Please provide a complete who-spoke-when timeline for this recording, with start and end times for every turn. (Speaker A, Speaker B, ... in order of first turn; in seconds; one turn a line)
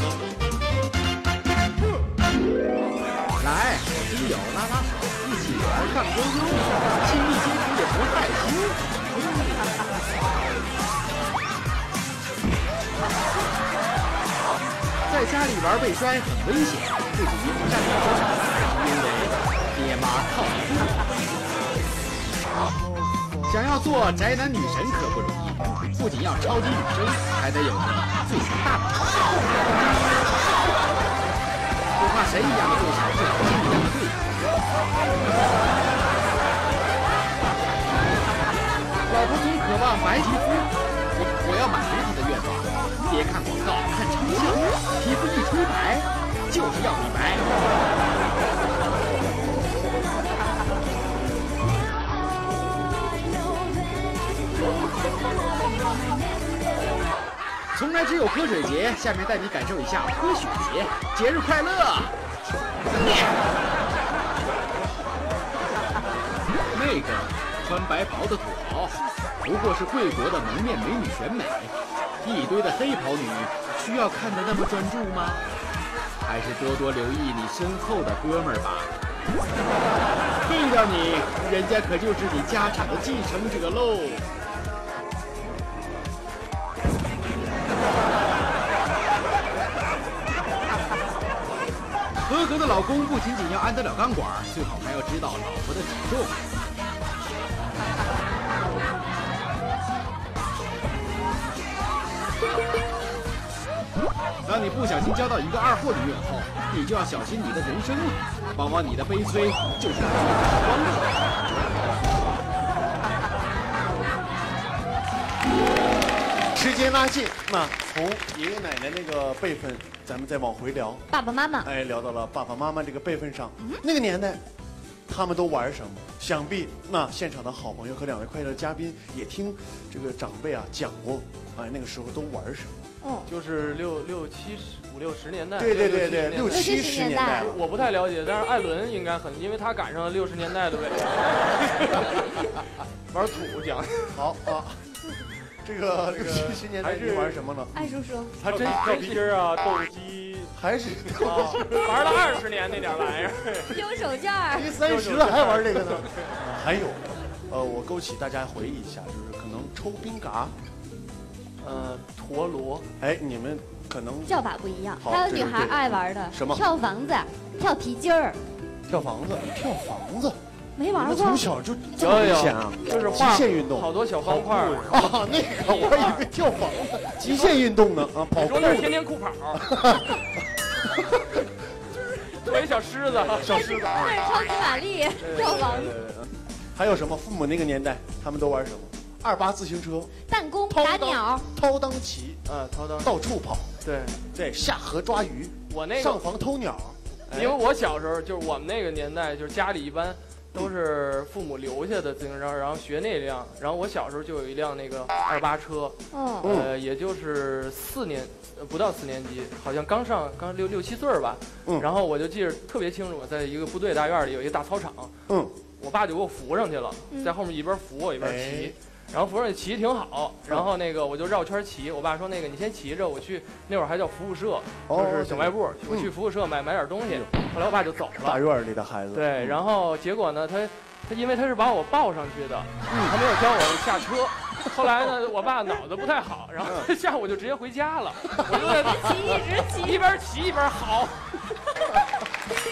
Speaker A: 3.4-9.7
Speaker A: 15.1-21.0
Speaker A: 23.4-29.6
Speaker A: 31.9-34.4
Speaker A: 39.1-47.5
Speaker A: 57.7-62.1
Speaker A: 63.0-63.3
Speaker A: 66.7-75.5
Speaker A: 76.2-78.9
Speaker A: 80.4-84.2
Speaker A: 92.2-96.4
Speaker A: 104.4-111.4
Speaker B: 116.5-121.0
Speaker C: 121.1-121.7
Speaker B: 121.6-124.4
Speaker B: 125.1-132.7
Speaker C: 133.0-133.3
Speaker D: 133.3-136.7
Speaker B: 135.6-137.7
Speaker C: 136.5-137.4
Speaker D: 137.3-144.2
Speaker B: 144.1-145.0
Speaker B: 145.6-147.9
Speaker D: 146.0-147.4
Speaker C: 147.7-148.3
Speaker D: 148.3-150.5
Speaker B: 148.4-149.2
Speaker B: 150.5-151.8
Speaker D: 151.2-153.8
Speaker C: 153.7-154.7
Speaker B: 154.5-160.5
Speaker D: 154.8-156.3
Speaker D: 161.6-162.9
Speaker B: 163.0-164.4
Speaker C: 164.2-168.4
Speaker B: 165.0-166.6
Speaker B: 168.9-170.4
Speaker C: 170.8-171.4
Speaker B: 170.9-178.9
Speaker D: 171.9-175.0
Speaker D: 175.6-176.3
Speaker D: 177.2-177.6
Speaker D: 178.3-179.6
Speaker B: 179.6-180.2
Speaker D: 182.2-183.5
Speaker B: 183.3-184.2
Speaker C: 183.5-186.0
Speaker B: 185.2-190.1
Speaker D: 185.2-185.6
Speaker C: 190.2-191.4
Speaker B: 190.7-192.4
Speaker D: 192.4-193.1
Speaker B: 193.0-193.7
Speaker D: 193.8-194.2
Speaker B: 194.3-197.5
Speaker D: 195.7-196.2
Speaker D: 197.3-215.1
Speaker C: 206.1-206.5
Speaker B: 206.4-206.7
Speaker B: 215.3-215.6
Speaker D: 215.8-228.4
Speaker B: 218.2-218.7
Speaker B: 224.9-226.1
Speaker B: 228.2-229.6
Speaker D: 229.1-241.4
Speaker B: 232.9-233.2
Speaker B: 236.6-236.9
Speaker C: 238.5-240.0